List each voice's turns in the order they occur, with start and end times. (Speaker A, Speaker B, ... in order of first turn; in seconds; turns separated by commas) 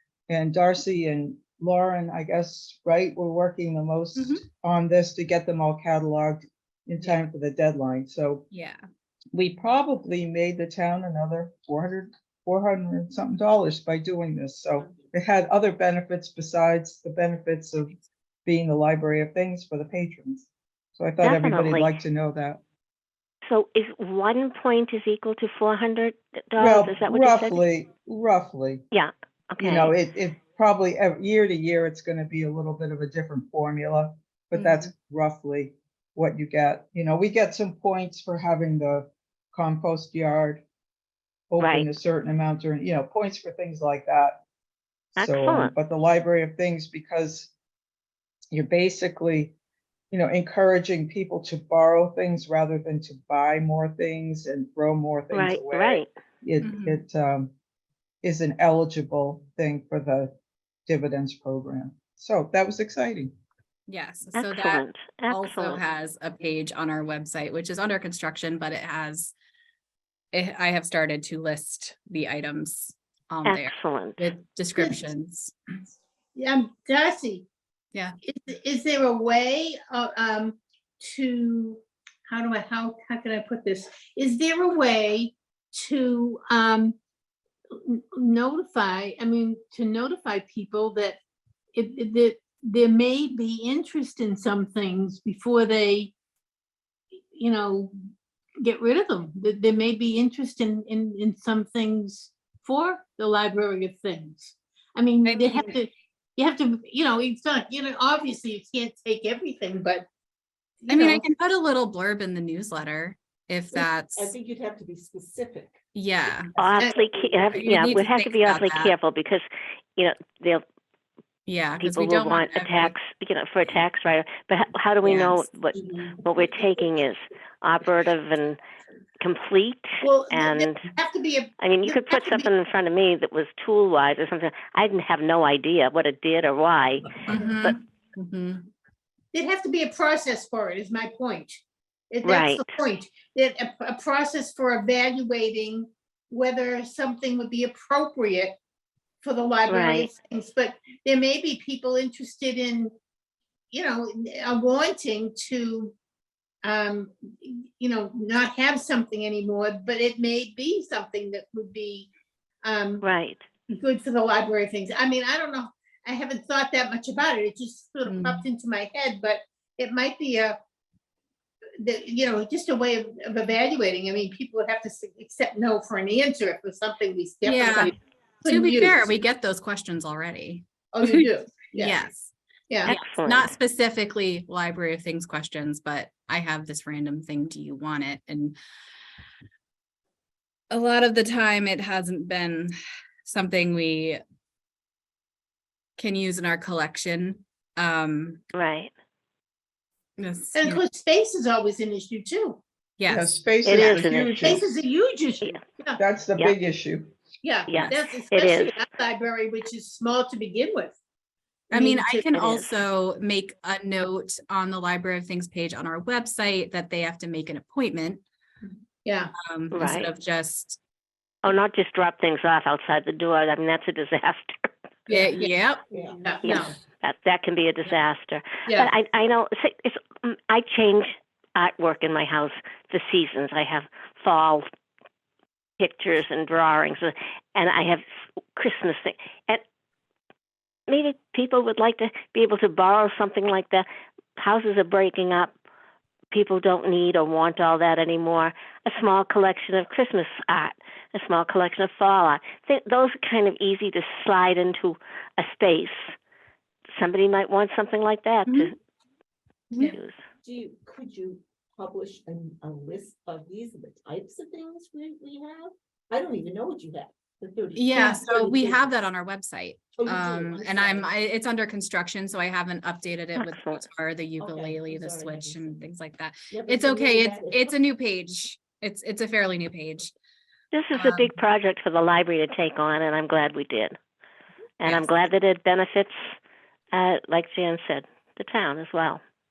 Speaker A: 0.3-8.4, Speaker B: 4.2-4.5, Speaker B: 8.5-8.8, Speaker A: 9.3-17.9, Speaker A: 18.4-22.6, Speaker C: 21.2-21.9, Speaker C: 23.4-27.6, Speaker A: 26.6-28.8, Speaker C: 28.9-29.9, Speaker A: 29.6-40.6, Speaker A: 41.5-44.4, Speaker C: 41.6-41.9, Speaker C: 45.1-45.7, Speaker A: 45.2-47.5, Speaker A: 48.5-49.5, Speaker A: 50.1-57.5, Speaker C: 55.3-56.1, Speaker B: 56.6-57.0, Speaker A: 58.2-60.3, Speaker A: 60.9-63.3, Speaker B: 63.9-69.3, Speaker C: 64.3-65.8, Speaker B: 70.3-75.5, Speaker C: 73.4-74.2, Speaker D: 76.3-77.5, Speaker D: 78.2-87.0, Speaker D: 87.7-91.2, Speaker D: 91.7-96.1, Speaker D: 97.3-97.9, Speaker D: 98.6-110.0, Speaker B: 105.2-105.8, Speaker D: 110.8-111.2, Speaker B: 110.9-114.3, Speaker E: 113.7-115.8, Speaker B: 115.9-116.5, Speaker C: 116.6-120.6, Speaker B: 117.6-118.9, Speaker B: 121.5-123.0, Speaker C: 121.8-128.6, Speaker B: 125.0-125.4, Speaker E: 125.7-127.0, Speaker C: 129.2-130.9, Speaker D: 130.0-132.5, Speaker C: 131.6-137.7, Speaker B: 137.2-138.7, Speaker D: 139.3-148.6, Speaker C: 142.2-142.6, Speaker D: 149.2-152.9, Speaker C: 149.7-150.1, Speaker D: 153.7-155.9, Speaker D: 156.6-162.1, Speaker D: 162.6-163.0, Speaker C: 163.0-163.4, Speaker D: 163.7-170.6, Speaker B: 168.1-168.4, Speaker D: 171.8-179.2, Speaker B: 177.4-177.9, Speaker B: 178.4-182.3, Speaker D: 180.9-182.0, Speaker B: 182.8-188.6, Speaker C: 182.9-183.5, Speaker B: 190.7-192.7, Speaker B: 193.2-194.2, Speaker B: 196.0-198.4, Speaker C: 198.5-198.9, Speaker B: 200.2-200.8, Speaker D: 200.5-202.6, Speaker B: 203.0-204.0, Speaker A: 203.1-204.7, Speaker C: 203.6-204.6, Speaker D: 204.4-206.0, Speaker A: 206.0-207.1, Speaker D: 207.4-210.9, Speaker C: 207.7-208.7, Speaker D: 211.7-212.3, Speaker B: 211.7-218.2, Speaker C: 212.3-212.7, Speaker D: 219.0-219.3, Speaker B: 219.4-220.8, Speaker C: 219.7-220.1, Speaker C: 221.4-224.7, Speaker D: 225.1-225.5, Speaker B: 225.1-225.8, Speaker E: 225.9-226.6, Speaker D: 226.2-226.8, Speaker C: 226.4-234.6, Speaker C: 235.8-239.6, Speaker C: 240.9-243.8, Speaker C: 244.4-245.5, Speaker C: 246.3-256.1, Speaker C: 256.9-258.8, Speaker B: 258.4-258.7, Speaker B: 259.7-259.9, Speaker C: 259.8-260.2, Speaker E: 260.4-268.9, Speaker B: 267.7-280.1, Speaker E: 269.9-271.1, Speaker C: 273.4-273.9, Speaker E: 274.4-275.9, Speaker E: 276.5-277.7, Speaker C: 280.7-284.0, Speaker B: 280.9-281.3, Speaker C: 284.8-286.3, Speaker C: 286.9-289.2